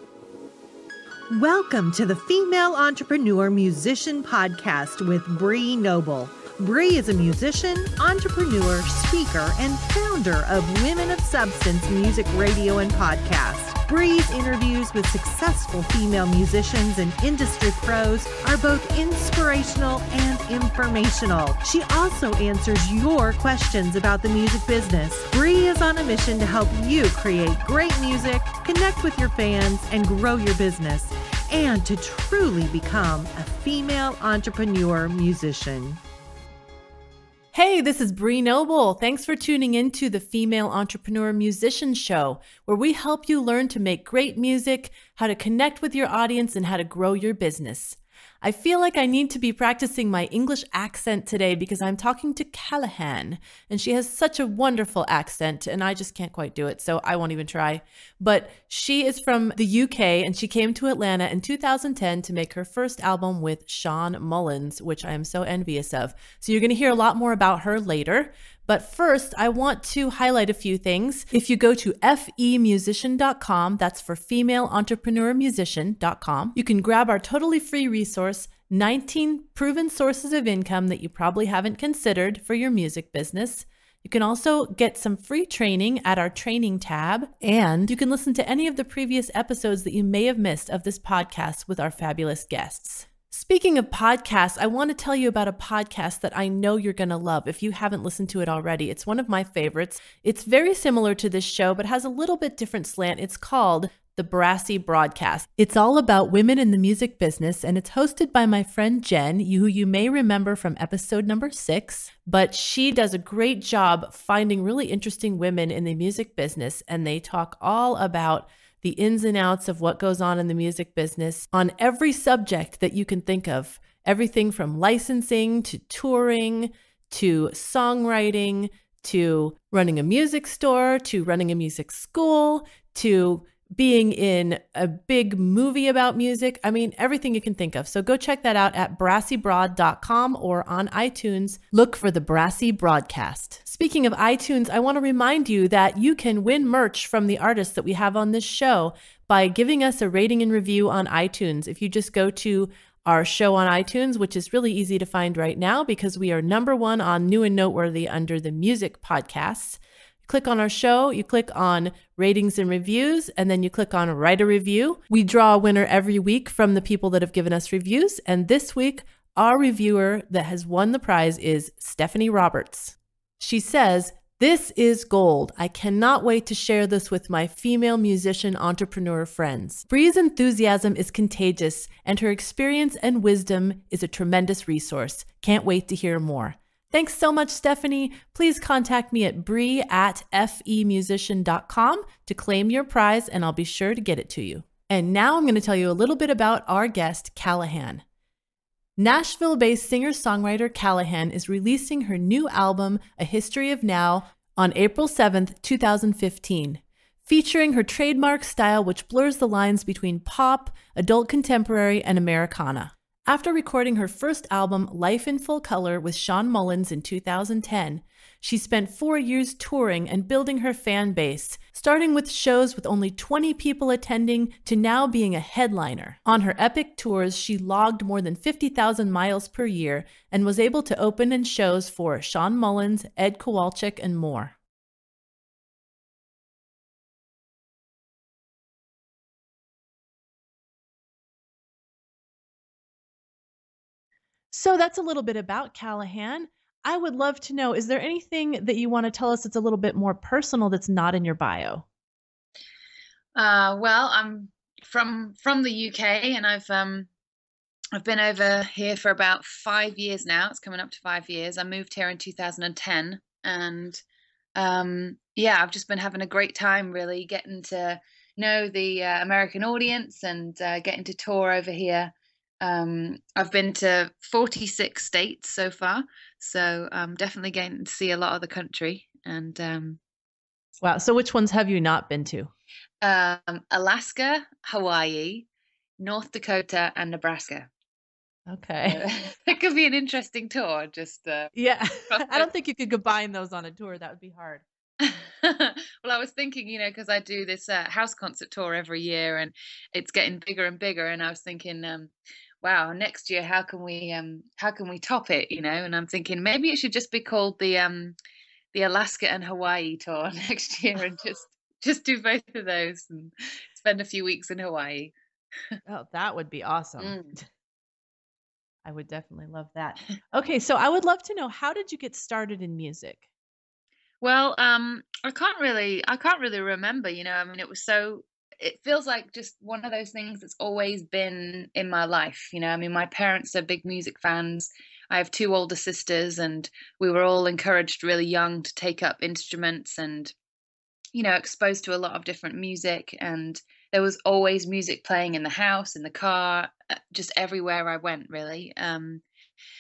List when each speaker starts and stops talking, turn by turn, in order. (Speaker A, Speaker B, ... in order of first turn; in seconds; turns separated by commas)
Speaker A: 1.3-36.0, Speaker B: 37.5-198.0, Speaker B: 199.0-234.5, Speaker B: 244.5-251.8, Speaker C: 253.3-257.1, Speaker C: 257.9-264.0, Speaker C: 264.6-280.0, Speaker B: 280.8-282.5, Speaker C: 283.0-285.4, Speaker C: 286.0-287.7, Speaker B: 288.5-289.0, Speaker C: 288.8-291.5, Speaker B: 291.6-294.6, Speaker C: 292.1-292.5, Speaker C: 295.0-308.1, Speaker C: 308.7-315.1, Speaker B: 315.9-317.4, Speaker C: 317.0-317.4, Speaker B: 318.8-323.2, Speaker C: 324.2-340.3, Speaker C: 341.1-349.2